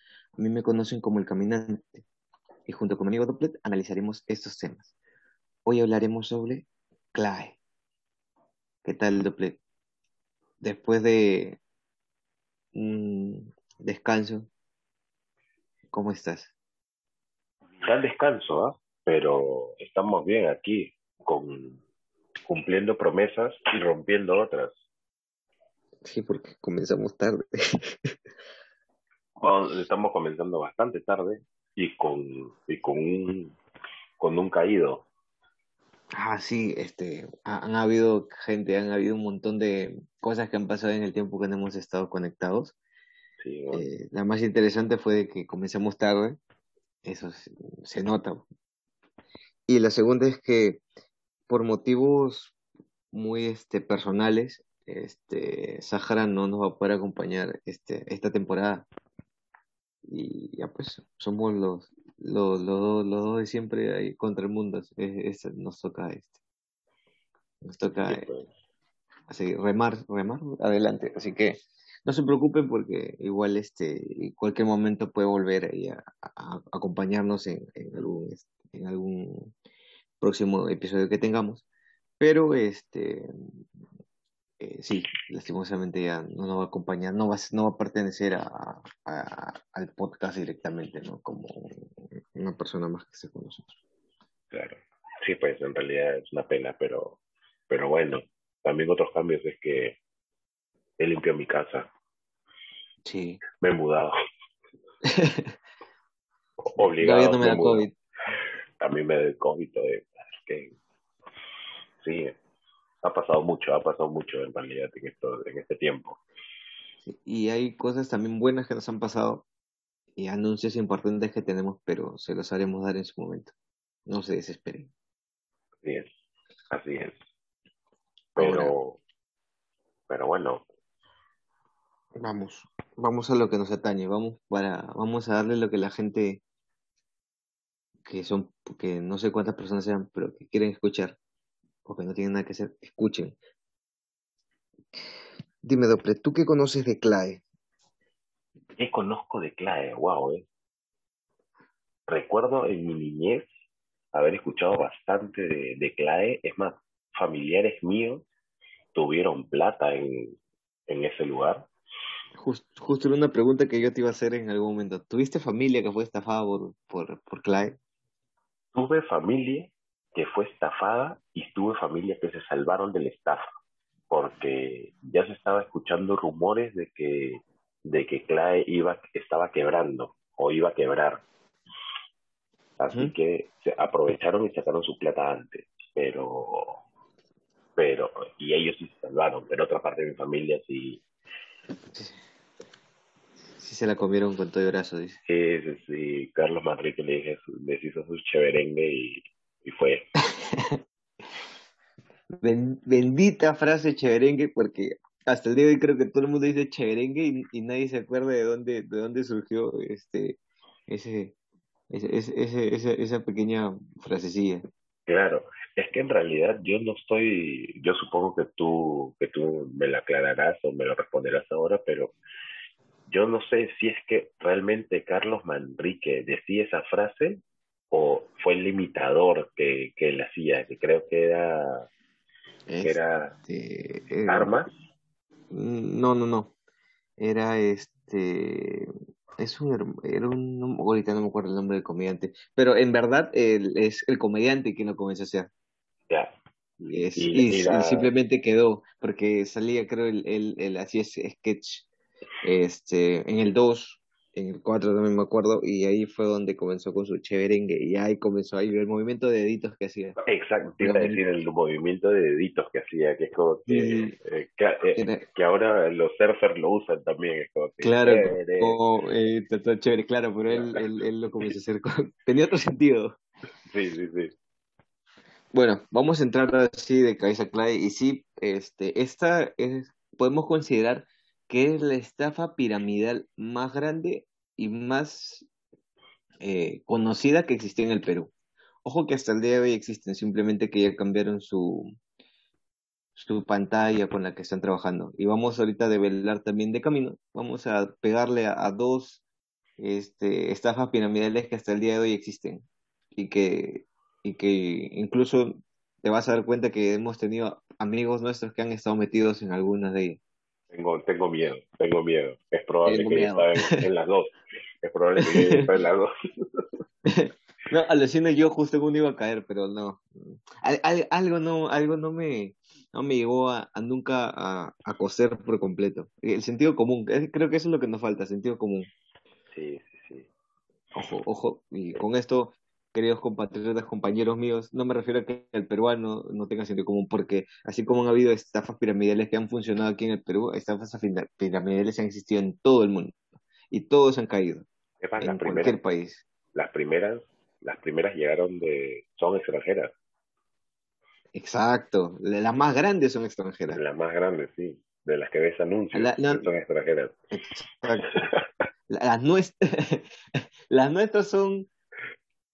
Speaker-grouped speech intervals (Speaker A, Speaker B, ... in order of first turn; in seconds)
Speaker A: 0.4-2.0, 2.7-4.9, 5.7-7.6, 8.8-9.6, 10.6-11.6, 12.7-14.5, 15.9-16.5, 26.0-28.1, 36.1-42.7, 43.7-46.4, 47.0-48.4, 49.7-50.8, 51.5-52.5, 53.1-58.9, 60.1-66.4, 67.6-68.2, 69.3-79.5, 80.2-81.6, 82.2-83.3, 84.6-93.7, 103.0-103.4, 105.0-105.5, 107.0-107.9, 117.0-119.4, 120.2-123.5, 124.1-124.9, 128.3-128.7, 132.2-136.4, 138.0-141.2, 141.8-143.3, 145.6-147.4, 162.3-167.8, 191.9-192.2, 193.6-195.2, 200.2-200.8, 202.4-211.3, 211.9-214.7, 232.7-234.5, 235.5-236.5, 237.2-245.5, 246.9-251.9, 252.4-260.2, 260.8-261.2, 263.7-264.1, 264.9-265.2, 267.8-273.2, 275.5-285.5, 286.4-288.3, 288.8-291.9, 293.1-299.2, 299.8-310.2, 312.8-313.8, 315.2-315.6, 317.1-328.9, 330.9-343.1, 343.7-344.6, 345.2-346.2, 351.3-353.8, 355.9-356.5, 357.3-358.1, 358.9-360.1, 360.7-361.7
Speaker B: 17.8-21.8, 22.5-24.8, 29.4-33.5, 34.2-35.0, 43.4-43.8, 68.0-68.5, 94.5-97.2, 97.7-100.0, 101.0-101.9, 103.6-104.1, 106.6-107.9, 108.8-110.7, 112.0-112.3, 113.0-116.2, 125.8-126.1, 126.7-127.2, 128.4-129.0, 130.1-130.6, 148.8-150.5, 152.1-153.4, 154.1-158.2, 158.9-160.3, 160.9-161.7, 168.7-173.4, 174.1-181.2, 182.8-186.8, 187.8-191.0, 195.3-200.0, 215.1-222.1, 223.1-231.9, 232.8-233.3, 234.3-234.7, 246.1-248.1, 260.2-268.8, 270.5-270.8, 273.7-274.3, 310.7-316.6, 329.5-330.3, 345.0-345.8, 346.5-349.9, 353.7-357.1